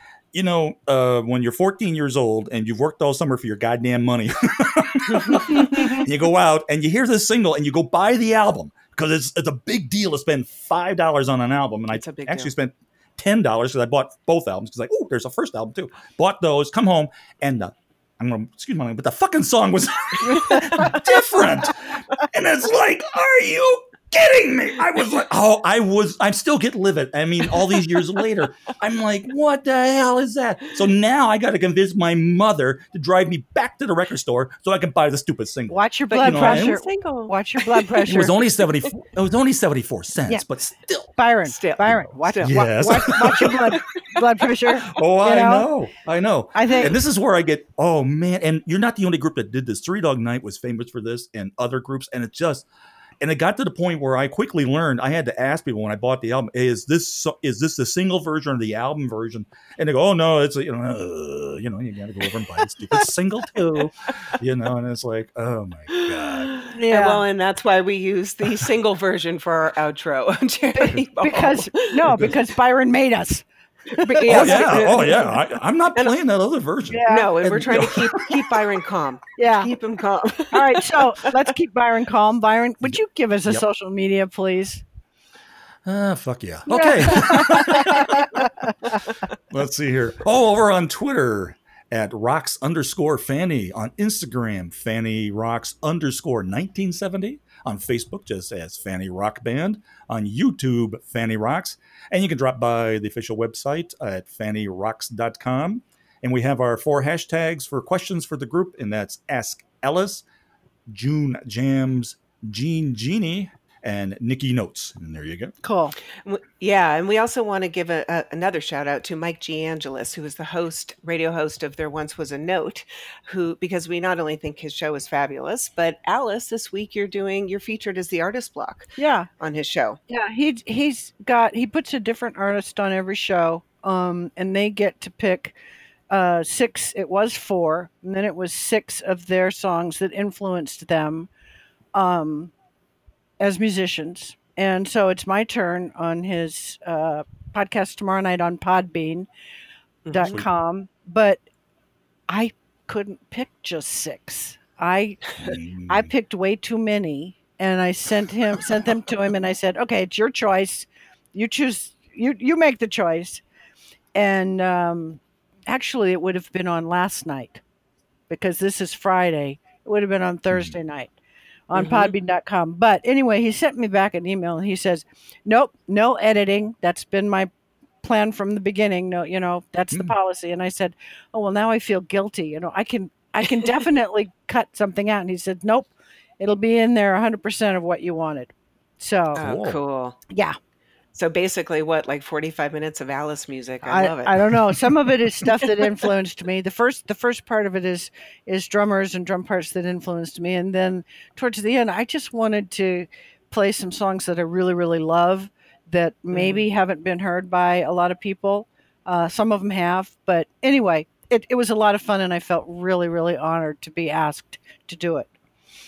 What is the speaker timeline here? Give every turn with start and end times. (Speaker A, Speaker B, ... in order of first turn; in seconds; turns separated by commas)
Speaker A: 0.3-36.8, Speaker B: 11.9-12.5, Speaker C: 35.7-38.4, Speaker B: 36.1-38.0, Speaker A: 38.1-41.1, Speaker C: 41.2-45.7, Speaker B: 41.5-43.8, Speaker A: 42.4-43.8, Speaker A: 44.9-52.7, Speaker C: 46.5-47.0, Speaker A: 53.2-66.5, Speaker B: 66.1-72.3, Speaker C: 66.7-67.3, Speaker C: 70.7-75.4, Speaker B: 73.9-75.4, Speaker A: 74.2-78.4, Speaker C: 76.9-77.4, Speaker B: 77.1-81.3, Speaker C: 79.4-79.7, Speaker C: 80.5-84.8, Speaker A: 82.9-83.6, Speaker A: 85.8-88.5, Speaker C: 86.7-88.7, Speaker A: 89.5-110.2, Speaker A: 110.9-115.5, Speaker C: 115.6-116.0, Speaker B: 116.2-130.0, Speaker C: 129.0-129.3, Speaker C: 130.1-135.6, Speaker C: 136.1-141.3, Speaker C: 141.9-142.5, Speaker C: 143.4-149.3, Speaker B: 150.1-150.4, Speaker C: 150.1-151.4, Speaker C: 152.3-163.4, Speaker A: 155.4-156.1, Speaker C: 164.2-167.6, Speaker C: 168.3-171.1, Speaker C: 171.7-177.5, Speaker B: 171.7-172.1, Speaker C: 178.0-189.4, Speaker B: 189.4-190.2, Speaker A: 189.4-189.8, Speaker C: 190.3-190.6, Speaker B: 191.2-194.4, Speaker C: 193.8-215.3, Speaker B: 206.3-206.6